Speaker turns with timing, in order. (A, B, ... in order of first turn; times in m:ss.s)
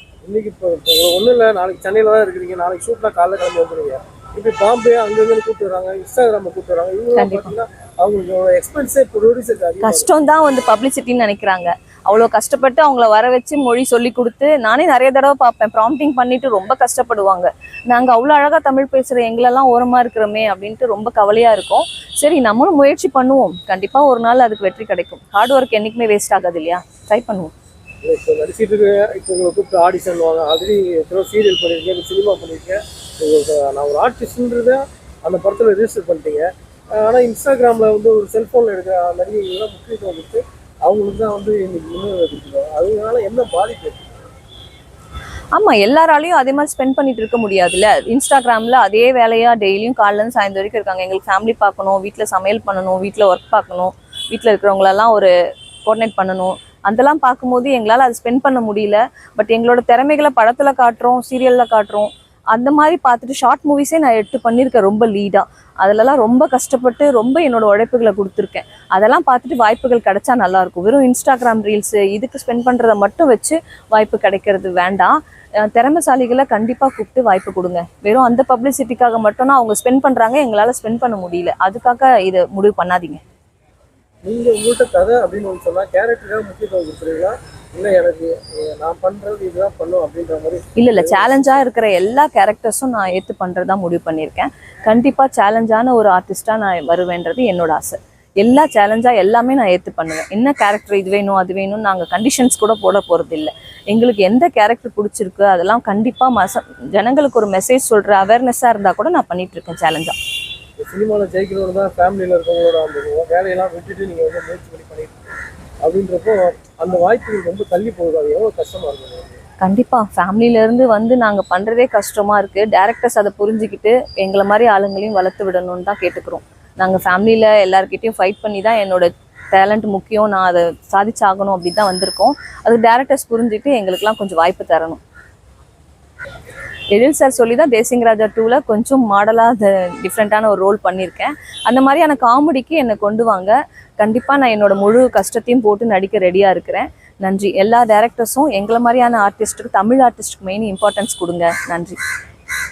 0:00.2-0:10.1 A
0:07.2-0:07.5 B
0:09.8-0:27.5 B
0:28.0-0:44.2 A
0:45.6-0:55.3 B
0:55.8-1:23.2 B
1:24.2-1:31.6 A
1:30.8-1:50.2 B
1:50.8-1:59.4 A
1:59.6-2:15.0 B
2:16.9-2:32.0 B